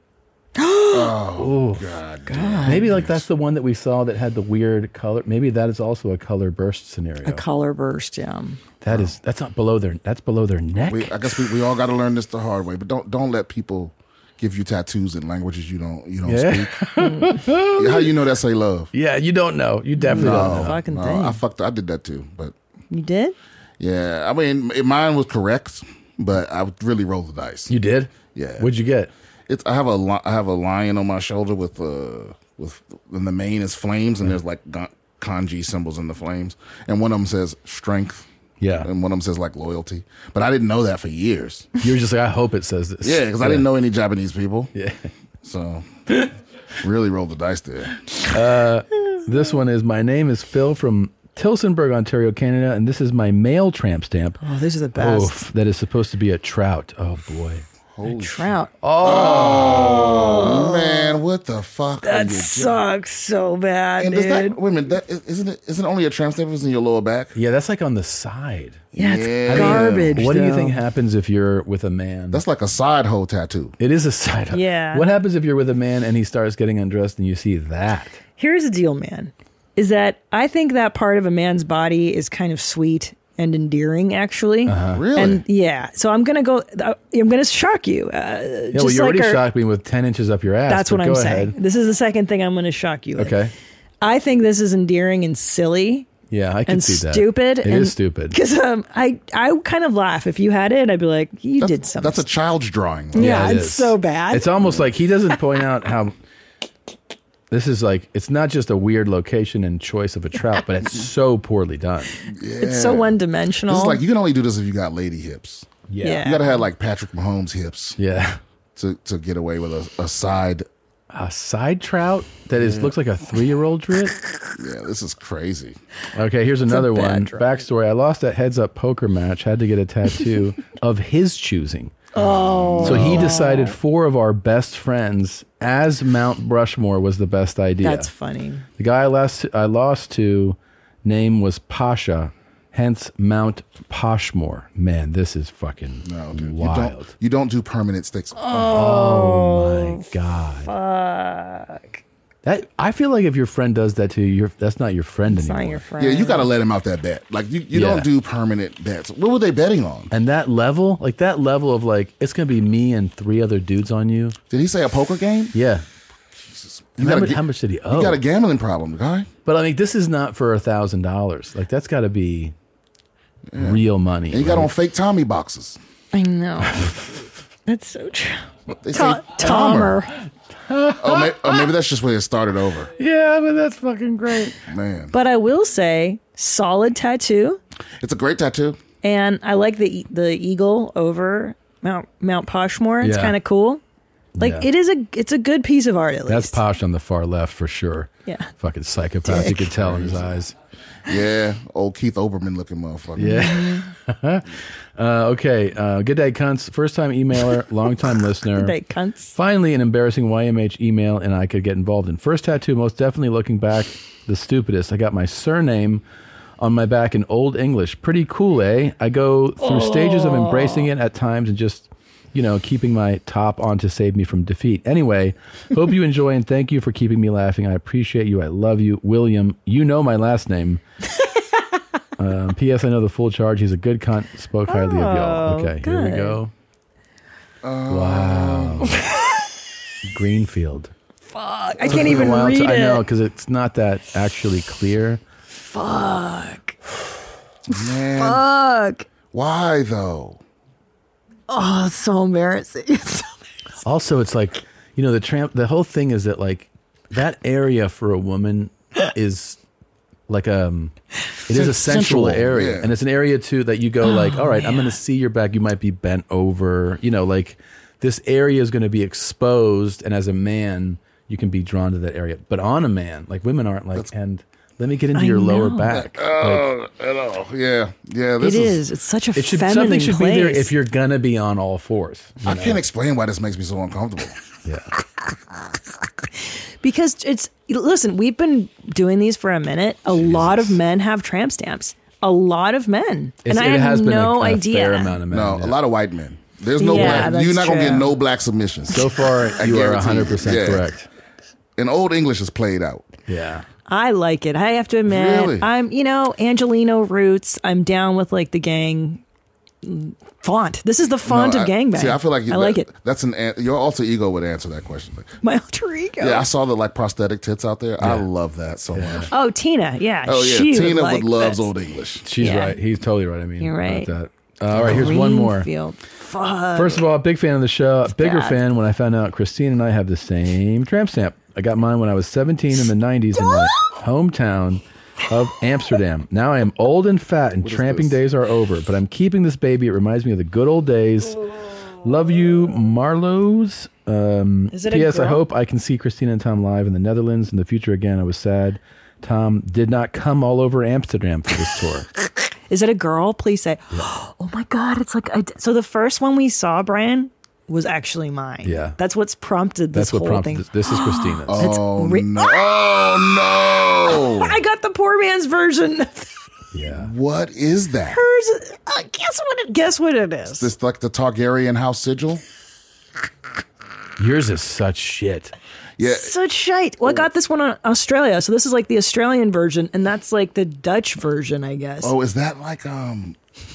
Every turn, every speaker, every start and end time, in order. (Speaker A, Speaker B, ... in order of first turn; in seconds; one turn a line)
Speaker A: 0.6-1.2
Speaker B: 0.9-3.2
Speaker C: 1.4-1.8
Speaker A: 2.3-2.9
Speaker C: 2.6-7.4
Speaker A: 7.2-8.6
Speaker C: 8.8-11.4
Speaker B: 10.8-16.8
Speaker C: 16.2-18.1
Speaker A: 17.0-17.4
Speaker B: 17.7-18.9
Speaker C: 18.9-20.8
Speaker A: 19.9-21.4
Speaker B: 20.1-22.5
Speaker A: 22.9-23.4
Speaker B: 23.8-27.7
Speaker C: 27.7-29.1
Speaker B: 28.3-28.7
Speaker B: 29.5-38.2
Speaker C: 38.6-38.9
Speaker B: 38.8-41.7
Speaker C: 41.8-43.7
Speaker B: 43.0-44.7
Speaker C: 44.7-45.1
Speaker B: 45.4-45.9
Speaker B: 46.8-48.0
Speaker C: 48.3-54.4
Speaker A: 54.4-55.4
Speaker C: 55.0-57.6
Speaker B: 57.9-62.8
Speaker A: 58.0-61.2
Speaker C: 58.8-60.2
Speaker A: 62.0-64.6
Speaker B: 64.0-67.3
Speaker C: 67.3-68.9
Speaker B: 68.9-70.3
Speaker A: 68.9-70.8
Speaker C: 69.5-72.4
Speaker B: 72.3-73.8
Speaker C: 73.8-78.2
Speaker A: 74.5-75.1
Speaker A: 78.4-89.4
Speaker C: 84.7-85.0
Speaker B: 84.9-85.4
Speaker C: 88.7-91.5
Speaker A: 90.7-93.4
Speaker C: 93.2-93.5
Speaker A: 94.0-96.1
Speaker C: 96.3-98.4
Speaker A: 96.7-102.2
Speaker B: 101.6-103.6
Speaker A: 103.1-104.5
Speaker C: 103.1-106.1
Speaker C: 107.5-112.1
Speaker B: 112.2-118.0
Speaker A: 112.6-114.0
Speaker C: 115.9-116.3
Speaker A: 116.0-116.6
Speaker C: 118.0-118.4
Speaker B: 118.8-120.7
Speaker C: 121.1-124.2
Speaker B: 122.6-122.9
Speaker B: 124.6-125.8
Speaker C: 126.1-131.9
Speaker A: 126.7-127.4
Speaker B: 132.2-133.4
Speaker A: 132.2-133.8
Speaker C: 132.8-138.1
Speaker A: 137.8-138.6
Speaker C: 138.8-147.1
Speaker B: 146.0-148.4
Speaker A: 148.3-150.1
Speaker C: 148.5-150.7
Speaker A: 150.6-152.0
Speaker C: 152.4-155.8
Speaker A: 155.3-156.5
Speaker B: 156.0-160.1
Speaker C: 157.7-158.1
Speaker C: 160.1-164.3
Speaker B: 164.5-165.5
Speaker C: 165.5-165.8
Speaker B: 166.5-169.3
Speaker C: 167.0-168.2
Speaker C: 169.4-172.5
Speaker B: 173.5-175.8
Speaker C: 173.6-174.7
Speaker A: 176.1-176.9
Speaker A: 177.7-180.1
Speaker B: 178.8-180.0
Speaker C: 180.7-181.6
Speaker B: 181.0-182.9
Speaker C: 182.9-184.6
Speaker B: 184.7-185.1
Speaker A: 185.1-187.6
Speaker B: 188.0-188.8
Speaker A: 189.0-193.8
Speaker C: 193.0-193.3
Speaker C: 194.3-194.7
Speaker A: 194.4-196.6
Speaker C: 196.2-200.5
Speaker A: 198.2-198.5
Speaker A: 199.3-199.7
Speaker B: 199.4-200.3
Speaker B: 201.1-203.4
Speaker C: 203.2-208.8
Speaker A: 203.2-203.8
Speaker A: 208.6-209.4
Speaker C: 209.3-216.0
Speaker C: 216.6-230.8
Speaker A: 219.6-220.9
Speaker C: 232.2-236.5
Speaker A: 234.7-236.4
Speaker B: 237.6-238.9
Speaker C: 237.9-239.0
Speaker A: 238.8-239.1
Speaker C: 240.1-240.9
Speaker A: 241.3-243.0
Speaker B: 241.8-242.4
Speaker C: 241.8-245.2
Speaker A: 245.5-246.8
Speaker B: 247.7-248.4
Speaker A: 247.7-249.1
Speaker B: 249.3-250.4
Speaker A: 251.5-253.3
Speaker C: 253.8-259.6
Speaker C: 260.3-260.9
Speaker C: 261.5-276.7
Speaker B: 261.5-262.9
Speaker A: 264.0-265.0
Speaker A: 275.1-275.9
Speaker B: 275.9-278.8
Speaker A: 278.4-280.7
Speaker C: 279.4-282.8
Speaker B: 282.4-284.4
Speaker C: 284.6-284.9
Speaker A: 286.8-295.2
Speaker C: 290.1-290.8
Speaker C: 293.4-295.8
Speaker B: 295.3-300.9
Speaker A: 296.8-298.1
Speaker C: 296.9-297.3
Speaker C: 298.9-301.1
Speaker B: 301.8-303.1
Speaker C: 303.3-303.6
Speaker A: 303.9-309.2
Speaker B: 305.1-305.7
Speaker A: 309.8-312.9
Speaker B: 311.2-315.3
Speaker A: 315.4-316.5
Speaker B: 316.2-319.3
Speaker C: 318.0-318.3
Speaker C: 318.9-319.3
Speaker A: 319.3-321.7
Speaker B: 320.2-322.3
Speaker C: 322.2-325.7
Speaker A: 322.4-322.8
Speaker A: 323.6-324.1
Speaker B: 324.7-325.1
Speaker A: 324.7-327.1
Speaker C: 326.7-341.4
Speaker A: 328.1-328.6
Speaker B: 337.6-338.1
Speaker C: 342.0-352.1
Speaker A: 344.7-345.4
Speaker A: 352.7-362.6
Speaker C: 358.6-359.0
Speaker C: 359.9-361.7
Speaker B: 361.5-364.5
Speaker A: 364.1-366.3
Speaker C: 366.7-367.1
Speaker B: 366.9-368.2
Speaker A: 368.1-370.7
Speaker B: 370.6-372.4
Speaker C: 374.2-375.5
Speaker B: 376.0-376.3
Speaker A: 376.0-382.1
Speaker B: 382.0-383.4